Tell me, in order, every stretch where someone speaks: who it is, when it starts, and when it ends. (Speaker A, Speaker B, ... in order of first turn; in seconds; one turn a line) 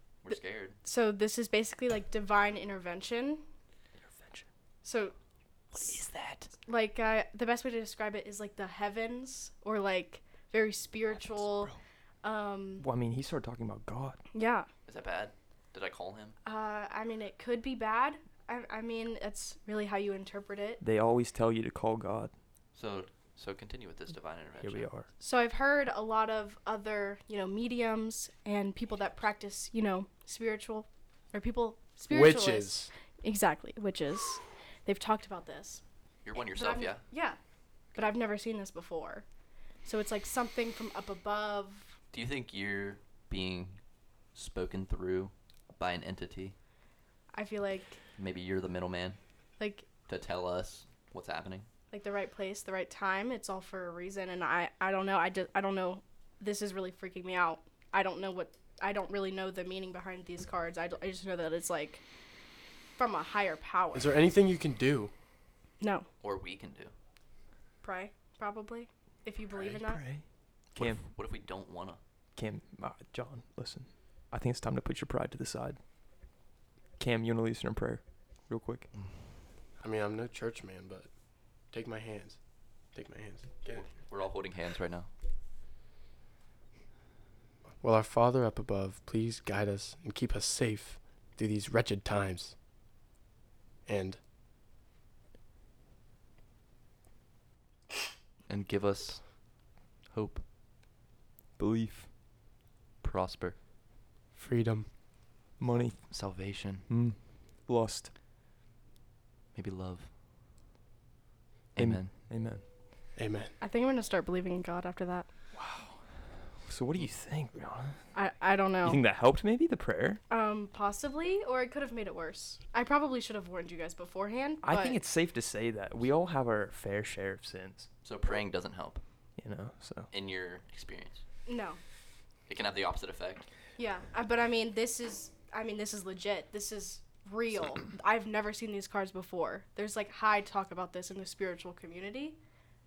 Speaker A: 0.2-0.8
Speaker B: 0.3-3.4
Speaker C: 4.0-4.5
Speaker B: 4.8-5.1
Speaker C: 5.7-6.5
Speaker B: 6.6-11.7
Speaker C: 11.2-11.8
Speaker B: 12.2-12.8
Speaker C: 12.8-14.2
Speaker B: 14.3-14.7
Speaker A: 14.9-16.3
Speaker B: 16.4-20.8
Speaker C: 20.8-22.3
Speaker A: 22.7-24.9
Speaker C: 24.6-25.1
Speaker B: 25.2-35.8
Speaker D: 32.1-32.9
Speaker A: 36.2-37.0
Speaker B: 36.4-37.4
Speaker B: 37.9-39.2
Speaker B: 39.8-41.9
Speaker A: 42.1-43.8
Speaker A: 44.3-46.5
Speaker B: 47.3-48.0
Speaker A: 48.2-49.2
Speaker B: 49.6-49.8
Speaker A: 50.1-51.7
Speaker B: 51.9-62.0
Speaker B: 63.0-64.2
Speaker D: 63.9-65.1
Speaker B: 65.8-66.0
Speaker A: 66.2-66.9
Speaker B: 67.8-70.0
Speaker C: 69.6-70.2
Speaker C: 70.7-71.0
Speaker A: 70.7-72.0
Speaker C: 72.3-75.8
Speaker C: 77.0-78.9
Speaker D: 79.8-81.1
Speaker D: 81.7-82.4
Speaker D: 82.9-83.9
Speaker A: 83.9-85.1
Speaker D: 87.8-92.5
Speaker D: 93.9-94.2
Speaker A: 98.5-99.3
Speaker A: 100.1-100.4
Speaker C: 101.6-102.1
Speaker A: 103.0-103.5
Speaker D: 104.3-104.9
Speaker C: 105.6-106.0
Speaker A: 106.1-106.9
Speaker C: 106.9-108.1
Speaker A: 109.5-110.1
Speaker A: 111.7-112.1
Speaker C: 111.8-112.6
Speaker D: 113.2-113.5
Speaker B: 113.6-115.3
Speaker C: 115.5-116.0
Speaker C: 116.6-118.0
Speaker B: 118.1-119.0
Speaker C: 118.8-120.2
Speaker B: 120.3-125.0
Speaker C: 124.6-127.9
Speaker A: 128.0-129.0
Speaker C: 129.4-130.1
Speaker A: 130.1-131.2
Speaker B: 131.4-131.8
Speaker A: 132.5-133.4
Speaker B: 133.8-142.4